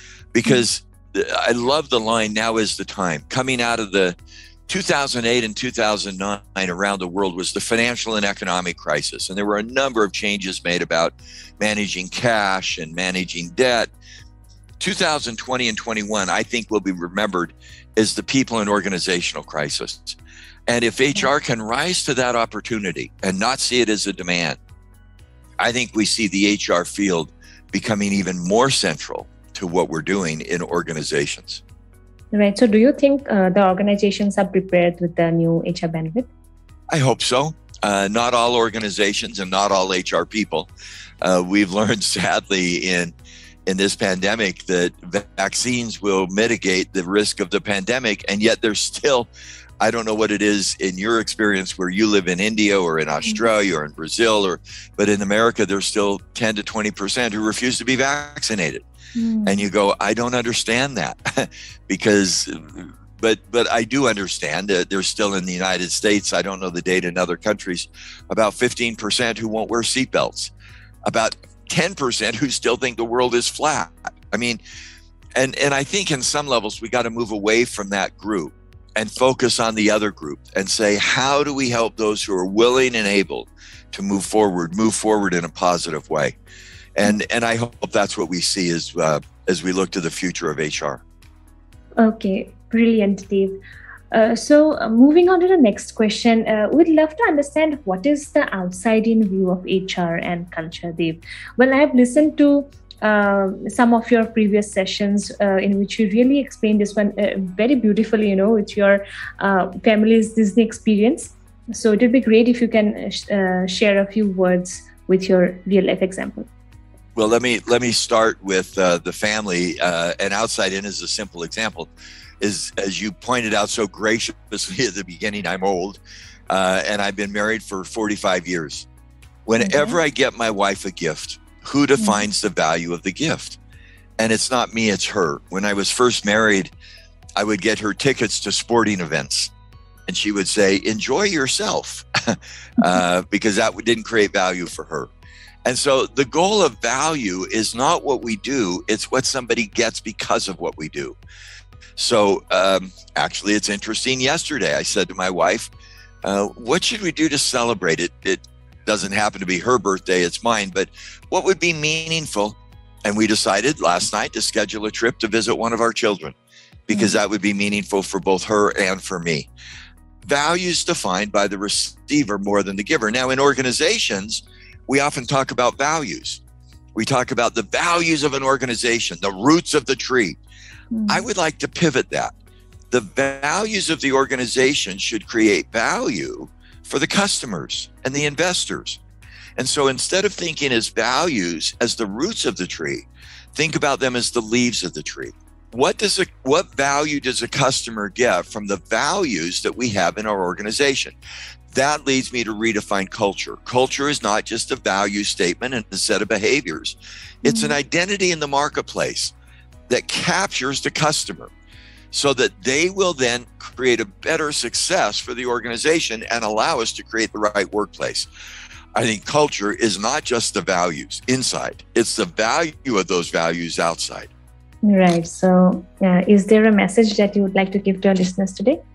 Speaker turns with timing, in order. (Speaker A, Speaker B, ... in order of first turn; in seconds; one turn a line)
Speaker A: 0.3-4.2
Speaker A: 4.7-13.9
Speaker A: 14.8-24.6
Speaker A: 25.6-31.6
Speaker B: 32.3-36.3
Speaker A: 36.9-40.7
Speaker A: 41.2-43.1
Speaker A: 43.7-49.3
Speaker A: 49.8-58.8
Speaker B: 59.2-59.7
Speaker A: 59.5-70.5
Speaker A: 71.1-74.6
Speaker A: 75.4-86.4
Speaker A: 87.0-91.0
Speaker B: 92.0-93.6
Speaker B: 94.1-116.5
Speaker A: 117.2-126.0
Speaker A: 126.5-128.9
Speaker A: 129.5-133.6
Speaker B: 129.6-130.0
Speaker B: 132.0-132.3
Speaker A: 134.2-136.7
Speaker A: 137.4-139.5
Speaker A: 140.1-145.1
Speaker A: 145.7-151.2
Speaker A: 152.0-155.7
Speaker A: 156.2-166.3
Speaker A: 166.9-169.5
Speaker B: 166.9-167.2
Speaker A: 170.2-176.4
Speaker A: 176.9-180.4
Speaker B: 180.9-181.2
Speaker A: 181.1-182.3
Speaker A: 182.9-189.0
Speaker A: 189.6-201.2
Speaker A: 201.7-209.3
Speaker B: 207.4-207.8
Speaker A: 209.9-211.5
Speaker A: 212.1-218.3
Speaker A: 218.9-224.3
Speaker B: 224.8-228.8